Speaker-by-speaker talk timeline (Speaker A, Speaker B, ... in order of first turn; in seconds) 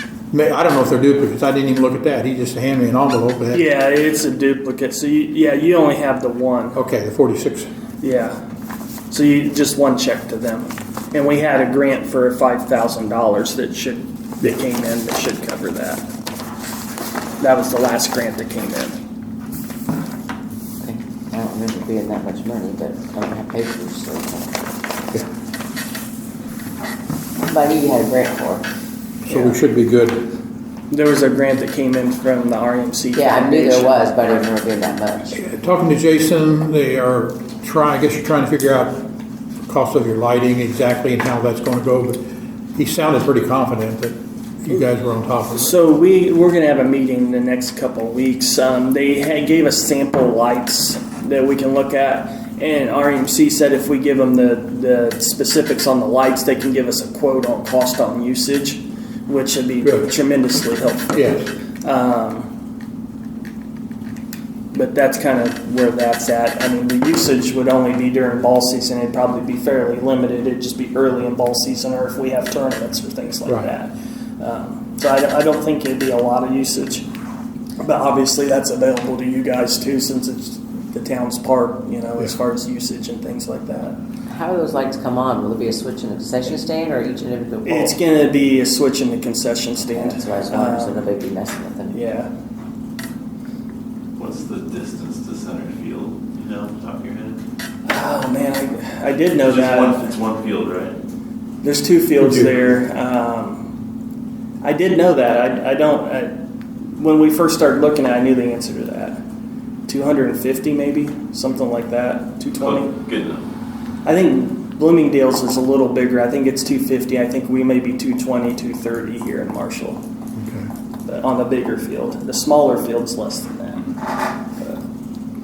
Speaker A: 0.3-3.7, 6.8-7.7, 29.2-30.3, 35.3-39.0, 39.7-42.2, 42.8-45.8, 59.8-60.1, 61.1-61.5, 120.4-120.7
Speaker B: 3.5-6.8, 8.0-8.4, 9.1-16.1, 17.4-19.0, 30.9-33.9, 45.5-62.5, 64.7-77.1, 77.8-84.0, 87.7-91.1, 91.9-92.3, 97.8-100.1, 101.6-103.7, 104.6-106.4, 107.0-109.2, 109.9-113.0, 114.0-120.0, 121.0-124.0, 124.5-124.8
Speaker C: 20.8-24.6, 27.5-28.7, 33.1-35.4, 84.3-88.0, 89.8-92.0
Speaker D: 94.2-97.4, 99.4-101.0, 112.6-113.5